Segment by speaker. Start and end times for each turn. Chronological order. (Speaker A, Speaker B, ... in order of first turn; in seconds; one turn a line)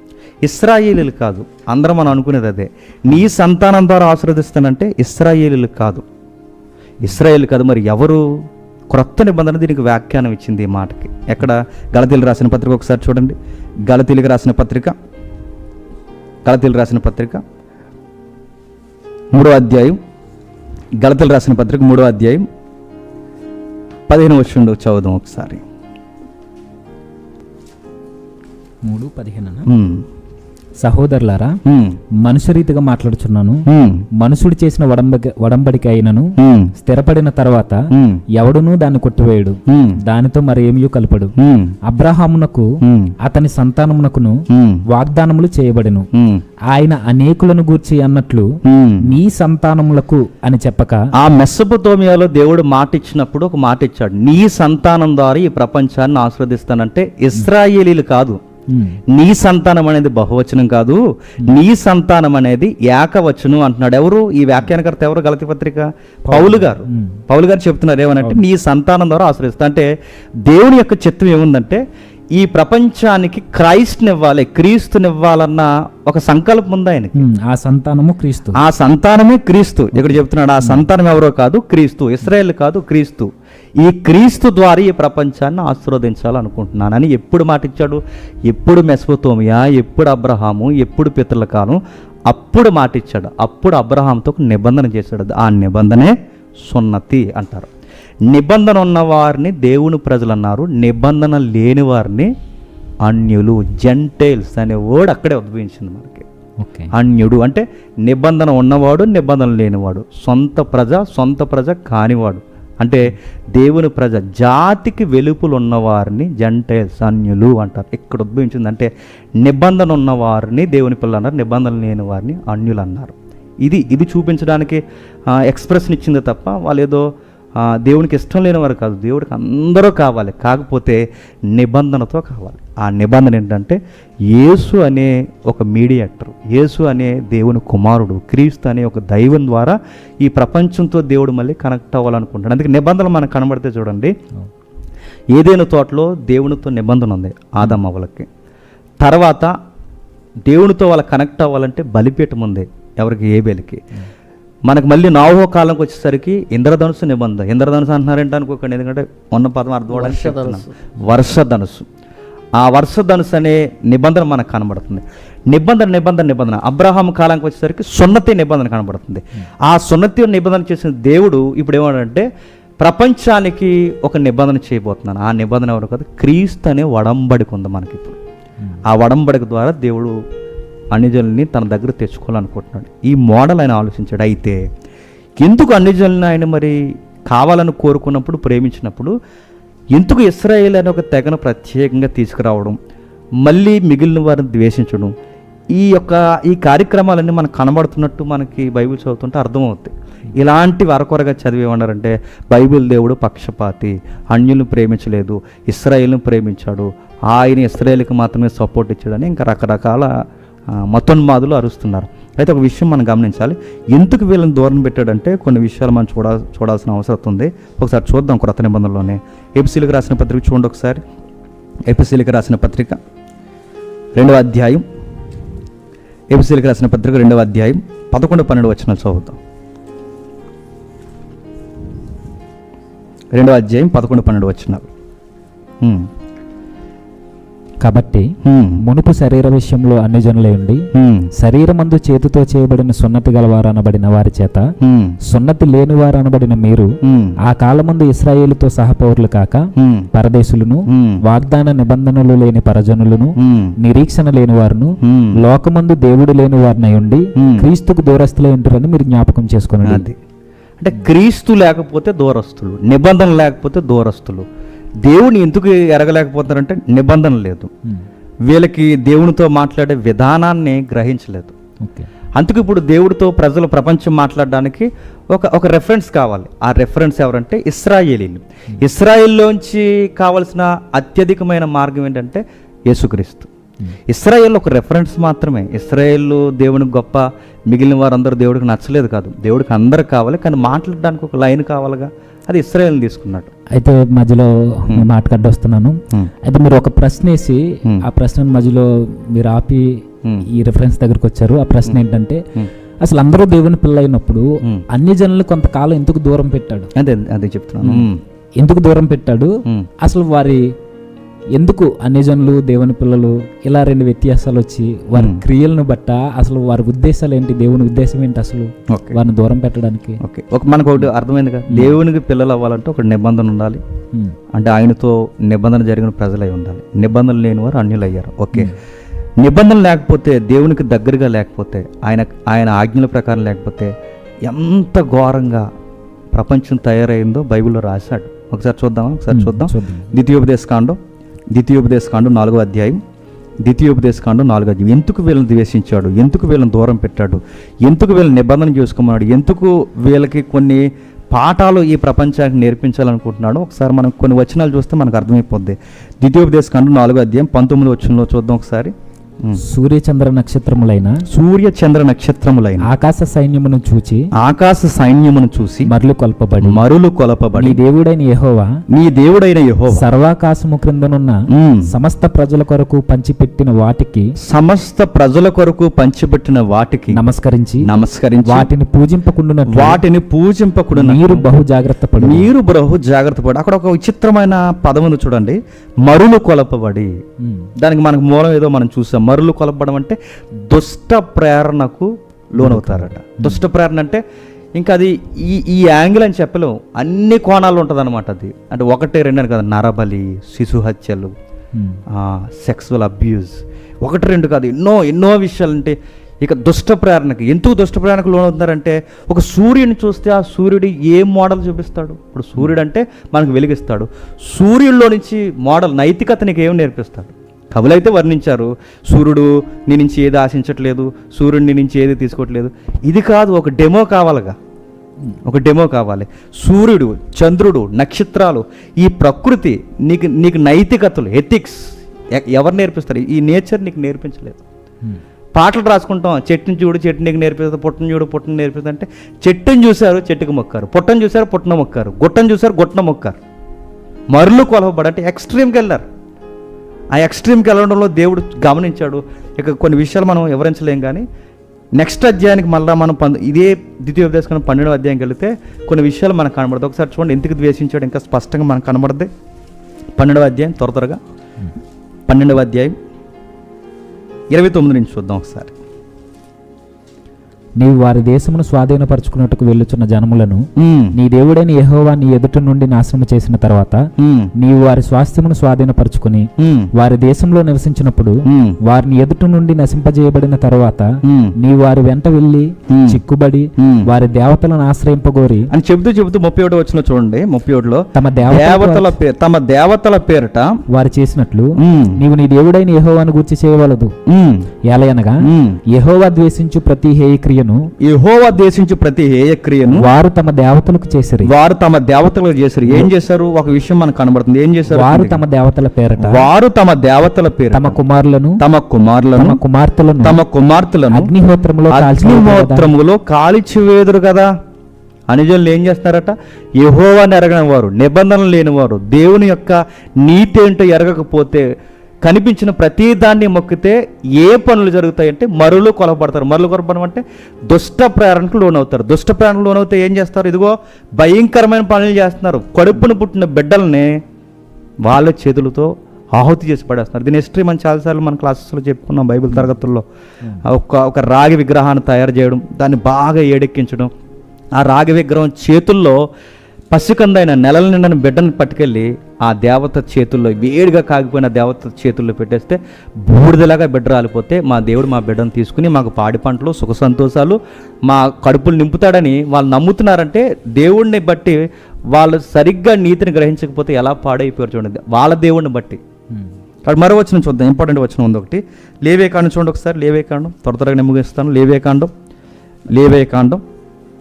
Speaker A: 0.4-6.0
Speaker A: 7.0-8.2
Speaker A: 8.9-13.3
Speaker A: 13.9-14.9
Speaker A: 16.4-17.4
Speaker A: 19.3-20.0
Speaker A: 21.0-22.4
Speaker A: 24.1-25.6
Speaker B: 28.8-29.7
Speaker A: 29.7-30.1
Speaker B: 30.8-31.6
Speaker A: 31.6-32.0
Speaker B: 32.2-33.6
Speaker A: 33.7-34.0
Speaker B: 34.1-37.8
Speaker A: 36.4-36.7
Speaker A: 37.9-38.2
Speaker B: 38.4-42.7
Speaker A: 39.7-40.0
Speaker A: 41.4-41.7
Speaker A: 42.8-43.1
Speaker B: 43.2-44.4
Speaker A: 44.5-44.8
Speaker B: 44.9-46.1
Speaker A: 46.1-46.4
Speaker B: 46.7-51.1
Speaker A: 48.6-49.1
Speaker A: 51.2-58.4
Speaker B: 58.7-59.0
Speaker A: 59.1-69.9
Speaker B: 66.3-67.2
Speaker A: 70.4-77.2
Speaker B: 77.1-78.6
Speaker A: 78.5-97.7
Speaker A: 98.3-102.3
Speaker A: 103.0-106.2
Speaker B: 106.6-106.9
Speaker A: 106.9-133.8
Speaker A: 134.3-144.1
Speaker A: 145.3-148.3
Speaker A: 149.0-149.5
Speaker A: 150.4-153.8
Speaker A: 154.7-161.9
Speaker A: 162.6-172.2
Speaker A: 172.8-178.2
Speaker A: 178.8-180.2
Speaker A: 180.9-184.6
Speaker A: 185.4-189.1
Speaker A: 189.9-192.8
Speaker A: 193.4-195.1
Speaker A: 195.7-210.1
Speaker A: 210.7-221.0
Speaker A: 221.9-223.0
Speaker A: 224.2-224.8
Speaker A: 226.3-229.4
Speaker A: 233.3-234.9
Speaker A: 235.8-236.1
Speaker B: 237.8-244.7
Speaker A: 238.4-238.8
Speaker A: 240.9-241.3
Speaker A: 244.8-245.2
Speaker B: 245.3-246.9
Speaker A: 247.0-247.3
Speaker B: 247.4-260.0
Speaker A: 249.8-250.1
Speaker A: 250.9-251.2
Speaker A: 253.4-253.7
Speaker A: 255.0-255.4
Speaker A: 257.4-257.7
Speaker A: 259.8-260.2
Speaker A: 260.8-264.4
Speaker A: 265.0-267.7
Speaker A: 268.4-271.5
Speaker B: 271.8-272.1
Speaker A: 272.4-283.5
Speaker A: 284.1-293.5
Speaker B: 293.7-302.4
Speaker B: 303.0-306.9
Speaker A: 306.9-308.2
Speaker B: 307.8-308.1
Speaker B: 308.6-310.6
Speaker B: 311.5-320.2
Speaker A: 315.1-315.4
Speaker A: 318.9-319.1
Speaker A: 320.2-323.8
Speaker B: 321.7-322.0
Speaker A: 324.5-328.8
Speaker A: 329.4-333.9
Speaker A: 334.4-335.7
Speaker A: 336.3-341.0
Speaker B: 339.3-340.1
Speaker A: 341.5-343.0
Speaker A: 343.6-359.6
Speaker B: 359.6-361.2
Speaker A: 361.3-362.9
Speaker B: 362.8-364.3
Speaker A: 364.4-365.9
Speaker B: 365.9-366.8
Speaker A: 366.6-367.8
Speaker B: 367.6-368.8
Speaker A: 368.9-370.0
Speaker B: 369.9-371.4
Speaker A: 371.5-371.9
Speaker B: 371.9-374.3
Speaker A: 374.4-377.2
Speaker B: 377.1-377.9
Speaker A: 377.8-378.7
Speaker B: 378.4-380.0
Speaker A: 379.7-381.4
Speaker B: 380.9-382.5
Speaker A: 382.2-387.2
Speaker B: 387.4-387.7
Speaker A: 387.8-394.2
Speaker B: 392.6-393.6
Speaker A: 394.7-401.3
Speaker B: 401.7-402.0
Speaker A: 402.1-424.6
Speaker A: 425.4-434.6
Speaker A: 435.5-443.4
Speaker A: 444.3-446.1
Speaker A: 447.1-451.2
Speaker A: 452.0-459.3
Speaker A: 460.2-461.2
Speaker A: 462.3-462.9
Speaker A: 464.5-465.7
Speaker B: 467.8-474.0
Speaker A: 470.8-471.1
Speaker A: 474.2-474.5
Speaker B: 474.6-481.1
Speaker A: 476.6-476.9
Speaker A: 478.4-478.8
Speaker A: 481.2-481.5
Speaker B: 481.6-485.7
Speaker A: 482.9-483.2
Speaker A: 483.8-484.1
Speaker A: 485.7-490.8
Speaker B: 488.1-489.2
Speaker B: 490.9-494.1
Speaker A: 491.8-492.2
Speaker A: 494.2-494.7
Speaker B: 494.8-497.9
Speaker A: 495.4-495.8
Speaker A: 498.0-500.1
Speaker B: 499.9-501.5
Speaker A: 501.4-505.4
Speaker B: 504.9-506.5
Speaker A: 506.2-508.0
Speaker B: 507.7-508.6
Speaker A: 508.6-509.6
Speaker B: 509.4-510.4
Speaker A: 510.2-511.3
Speaker B: 511.1-512.9
Speaker A: 511.9-514.5
Speaker A: 515.3-521.7
Speaker A: 522.2-534.2
Speaker A: 535.0-540.0
Speaker A: 540.6-544.1
Speaker A: 544.8-546.2
Speaker A: 546.9-566.0
Speaker A: 566.8-572.1
Speaker A: 572.9-573.6